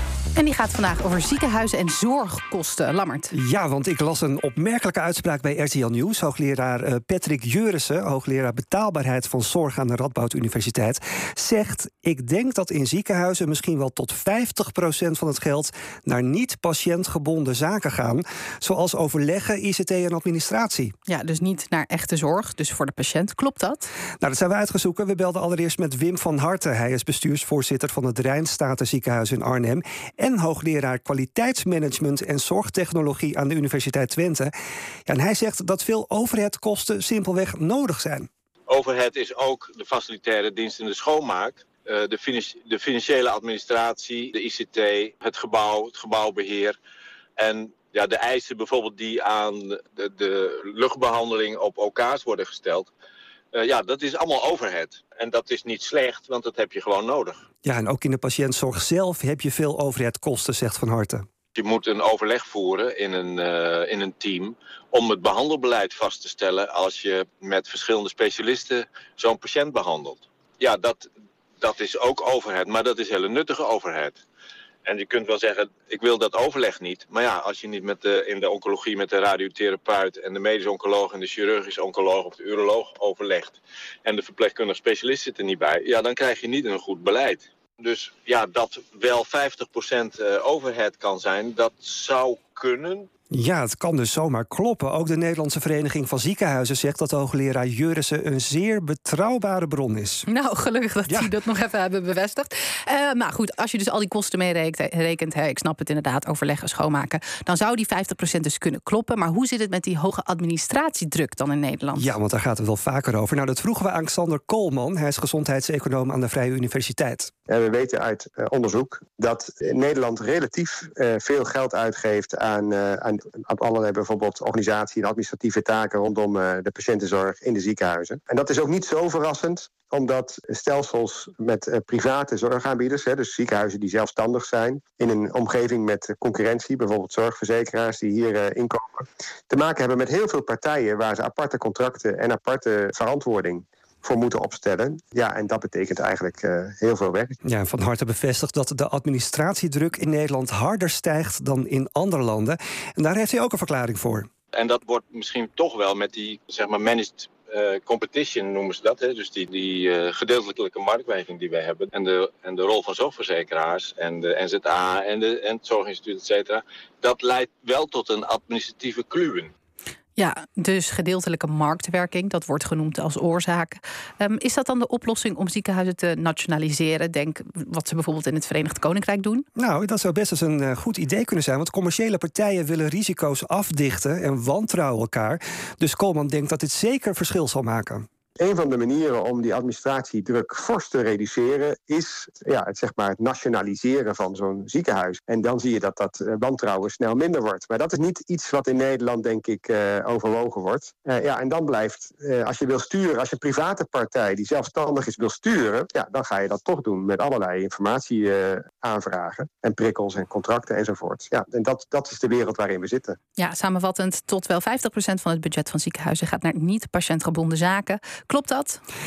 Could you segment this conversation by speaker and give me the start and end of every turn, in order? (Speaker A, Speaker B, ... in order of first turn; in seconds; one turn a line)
Speaker A: 0.3-3.3
Speaker B: 3.3-20.9
Speaker A: 21.1-23.9
Speaker B: 24.2-34.5
Speaker B: 35.0-38.3
Speaker C: 38.7-46.8
Speaker C: 47.4-52.9
Speaker C: 53.5-57.4
Speaker B: 57.6-61.2
Speaker C: 61.5-74.2
Speaker C: 74.8-93.1
Speaker B: 93.3-100.3
Speaker A: 100.3-112.1
Speaker B: 112.0-117.3
Speaker D: 117.5-147.3
Speaker B: 147.4-154.3
Speaker C: 154.5-169.5
Speaker A: 170.2-179.4
Speaker B: 179.6-188.0
Speaker D: 188.4-213.2
Speaker A: 213.4-218.8